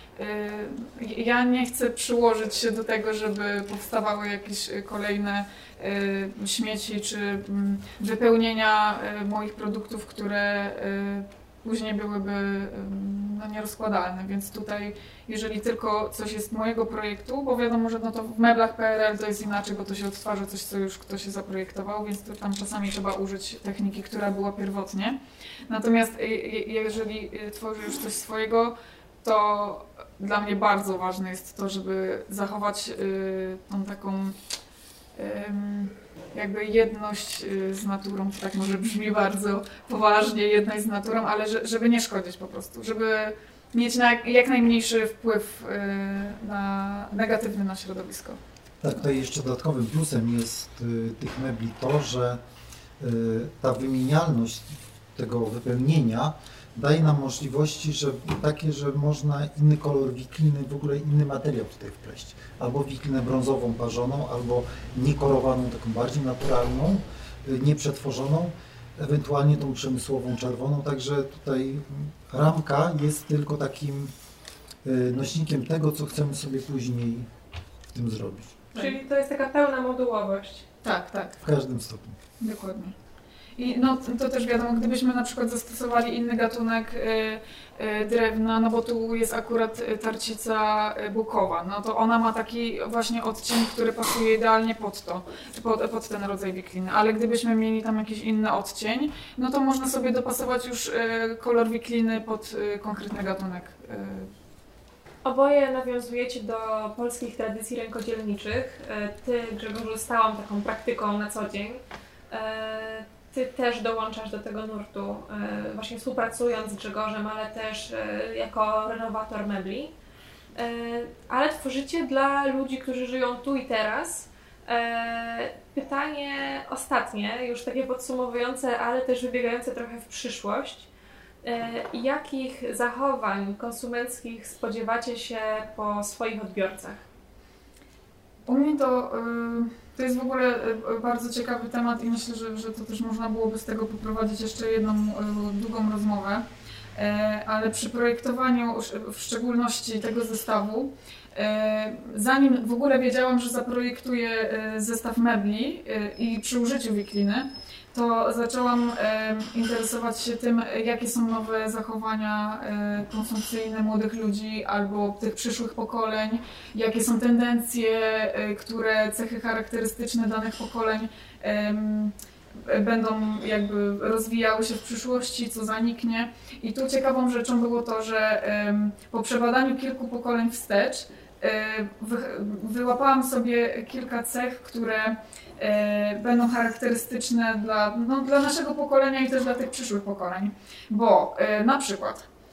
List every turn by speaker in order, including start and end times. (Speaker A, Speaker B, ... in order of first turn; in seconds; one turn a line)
Speaker A: 0.2-34.4
Speaker A: 35.1-48.4
Speaker B: 48.8-52.4
Speaker B: 53.0-74.1
Speaker B: 74.8-77.3
Speaker B: 77.9-78.6
Speaker C: 78.8-80.7
Speaker A: 80.8-81.4
Speaker B: 81.4-82.2
Speaker A: 82.4-82.9
Speaker A: 83.6-104.3
Speaker C: 105.2-119.9
Speaker C: 120.5-130.9
Speaker C: 131.4-137.0
Speaker A: 138.5-146.4
Speaker A: 146.9-192.3